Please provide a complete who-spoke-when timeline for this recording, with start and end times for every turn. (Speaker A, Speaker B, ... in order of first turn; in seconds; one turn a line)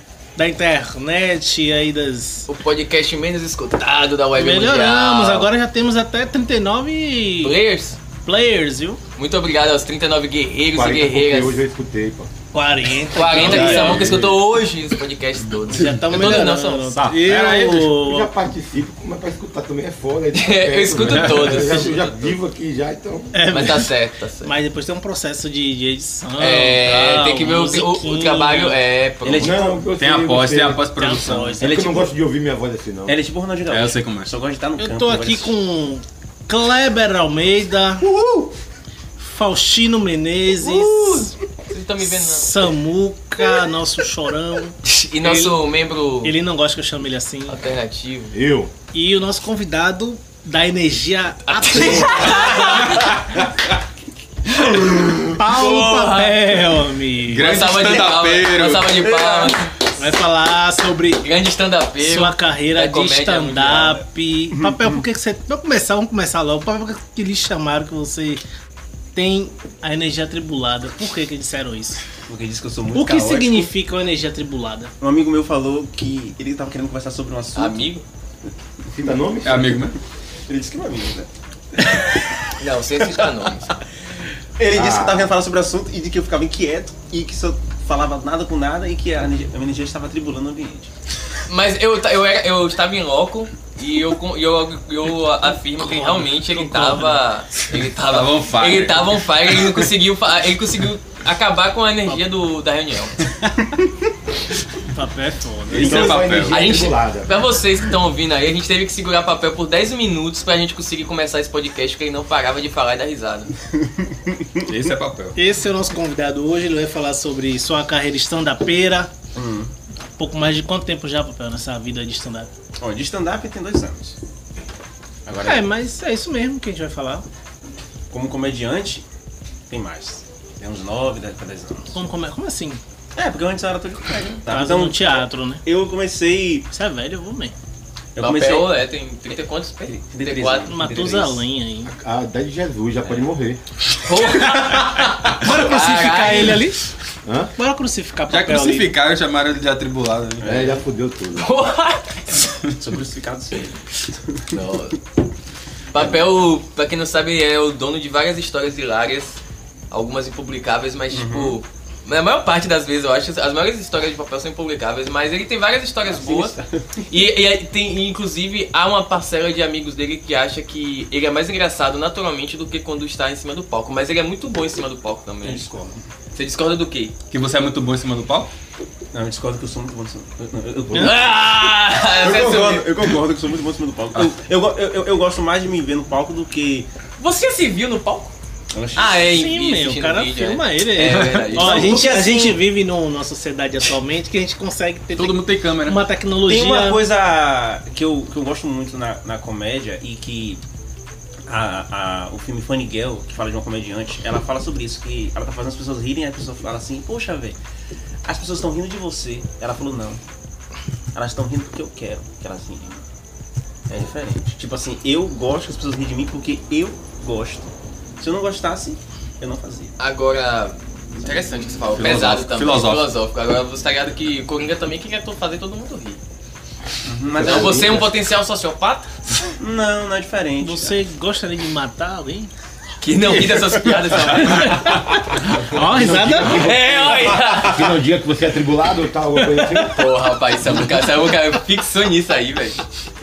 Speaker A: 0.3-2.5
Speaker B: 2.5-5.5
Speaker A: 4.3-7.5
Speaker B: 7.4-8.0
Speaker A: 8.2-9.0
Speaker B: 9.2-11.6
Speaker C: 10.7-12.3
Speaker A: 12.5-14.1
Speaker B: 13.1-17.0
Speaker D: 13.3-14.4
Speaker A: 15.7-18.3
Speaker D: 15.8-16.1
Speaker C: 16.9-23.5
Speaker B: 20.3-22.4
Speaker D: 21.0-21.8
Speaker A: 23.3-28.8
Speaker B: 23.5-24.5
Speaker B: 26.4-29.6
Speaker E: 29.2-29.9
Speaker C: 29.4-30.9
Speaker D: 30.0-31.6
Speaker A: 30.9-32.1
Speaker C: 31.5-33.2
Speaker E: 31.6-32.1
Speaker E: 33.1-35.5
Speaker D: 33.7-34.3
Speaker A: 34.8-38.0
Speaker E: 38.0-38.5
Speaker A: 39.2-41.4
Speaker B: 40.6-42.5
Speaker A: 42.1-45.6
Speaker B: 44.8-46.4
Speaker A: 46.2-47.6
Speaker B: 47.5-48.4
Speaker C: 48.3-48.7
Speaker A: 48.9-53.1
Speaker B: 51.5-53.2
Speaker E: 52.4-53.0
Speaker B: 54.6-56.6
Speaker E: 54.6-55.1
Speaker A: 55.3-57.6
Speaker D: 57.2-59.0
Speaker B: 57.4-59.7
Speaker E: 59.0-59.6
Speaker A: 60.0-61.2
Speaker B: 61.2-64.0
Speaker A: 62.0-68.4
Speaker E: 64.5-65.0
Speaker A: 69.1-72.0
Speaker E: 72.3-73.7
Speaker A: 72.9-74.9
Speaker E: 75.0-78.0
Speaker B: 77.5-78.0
Speaker C: 78.9-79.9
Speaker D: 79.4-80.0
Speaker E: 80.5-82.0
Speaker B: 82.5-83.8
Speaker E: 84.6-90.9
Speaker C: 84.7-85.3
Speaker B: 91.5-103.3
Speaker A: 95.8-97.2
Speaker D: 98.0-99.9
Speaker A: 104.9-106.3
Speaker D: 105.7-106.8
Speaker C: 105.7-107.3
Speaker B: 106.5-113.5
Speaker E: 113.8-114.7
Speaker D: 114.7-115.4
Speaker A: 115.3-119.1
Speaker E: 119.3-119.7
Speaker A: 120.2-122.5
Speaker E: 122.8-124.2
Speaker E: 125.2-125.7
Speaker A: 125.4-127.2
Speaker E: 128.1-129.0
Speaker E: 129.7-132.0
Speaker A: 131.9-132.8
Speaker E: 133.2-136.7
Speaker A: 134.5-135.6
Speaker A: 136.7-137.5
Speaker E: 138.1-138.8
Speaker B: 138.2-140.8
Speaker E: 139.8-141.4
Speaker A: 140.7-141.9
Speaker C: 141.8-143.6
Speaker B: 144.0-146.6
Speaker A: 145.3-146.9
Speaker C: 147.2-147.5
Speaker A: 147.6-148.9
Speaker D: 148.3-150.6
Speaker E: 150.4-150.8
Speaker C: 150.4-151.5
Speaker B: 151.3-152.6
Speaker E: 152.8-154.5
Speaker B: 154.5-155.0
Speaker B: 155.9-159.4
Speaker B: 159.9-166.6
Speaker E: 161.1-161.6
Speaker E: 166.1-167.0
Speaker B: 167.1-175.7
Speaker E: 175.4-175.9
Speaker B: 176.3-177.1
Speaker D: 177.3-178.5
Speaker E: 179.1-186.9
Speaker B: 180.9-183.2
Speaker B: 187.2-188.3
Speaker E: 188.7-189.3
Speaker B: 188.9-192.1
Speaker A: 189.2-197.0
Speaker E: 191.3-192.6
Speaker D: 195.2-196.0
Speaker E: 196.5-200.6
Speaker E: 201.5-207.6
Speaker E: 208.2-210.2
Speaker E: 211.1-213.0
Speaker E: 213.9-219.9
Speaker B: 220.0-226.2
Speaker D: 221.9-223.1
Speaker E: 227.1-228.1
Speaker C: 227.3-228.1
Speaker B: 227.3-229.5
Speaker E: 229.6-230.9
Speaker A: 230.6-232.5
Speaker B: 233.0-235.0
Speaker A: 234.5-236.7
Speaker C: 235.5-240.1
Speaker B: 236.4-238.0
Speaker B: 239.3-242.8